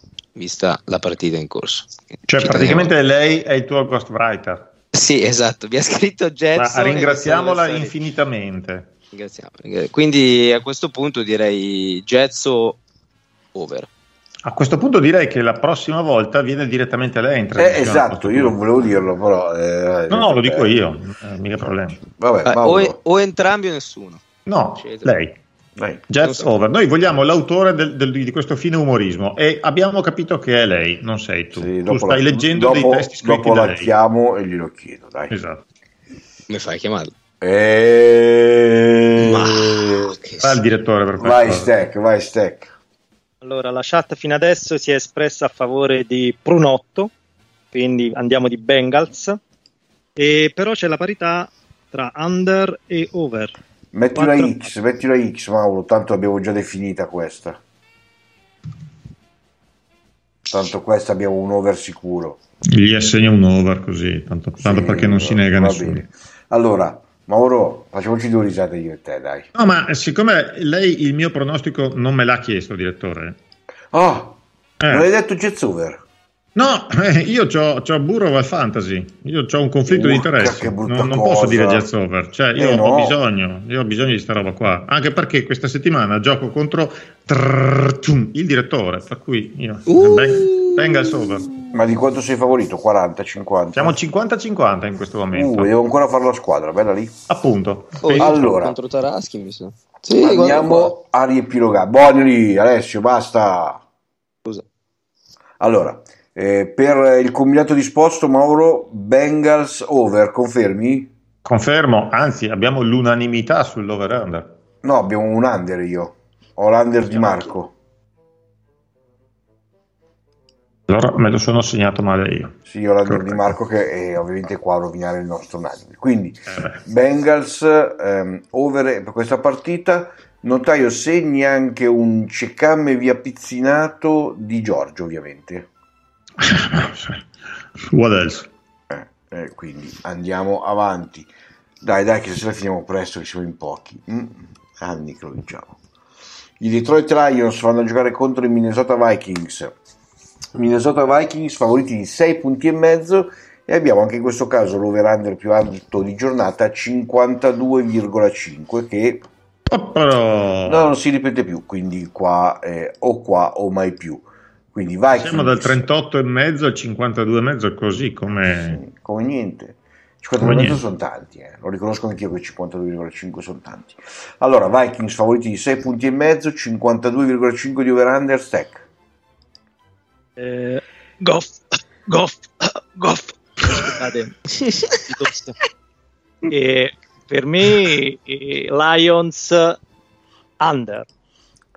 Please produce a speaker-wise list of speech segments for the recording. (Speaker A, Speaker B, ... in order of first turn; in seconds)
Speaker A: 0.3-2.9, 4.9-7.9, 9.1-12.8, 13.5-13.9, 22.4-24.2, 24.8-25.1, 26.2-26.5, 36.5-37.1, 39.2-40.5, 89.9-91.6, 98.0-100.9
Speaker B: 2.3-4.6, 6.5-8.9, 14.4-18.6, 20.1-22.0, 24.4-25.4, 26.1-33.9, 35.3-35.6, 40.4-41.7, 62.7-66.0, 69.5-73.4, 74.8-75.1, 76.5-91.5, 93.7-95.7, 97.3-98.5, 111.4-114.5, 120.9-123.4, 126.5-126.8, 136.4-137.2, 137.8-138.5, 159.7-160.9, 165.1-168.8, 170.4-170.8
Speaker C: 17.6-20.7, 22.1-22.9, 25.8-26.0, 31.6-35.3, 37.4-40.1, 41.2-42.7, 53.9-57.6, 60.5-62.4, 64.6-69.5, 73.9-76.0, 79.9-81.9, 82.5-83.2, 91.7-94.0, 95.3-97.2, 98.2-98.8, 100.2-103.8, 105.6-111.1, 114.8-117.7, 122.7-135.7, 138.9-141.3, 141.8-145.8, 146.6-149.8, 150.5-159.2, 160.6-165.9, 168.5-178.8
Speaker D: 43.4-47.1, 47.7-49.4, 50.2-53.5, 54.1-54.7, 180.4-184.3, 185.0-185.5, 186.5-189.8, 190.6-191.1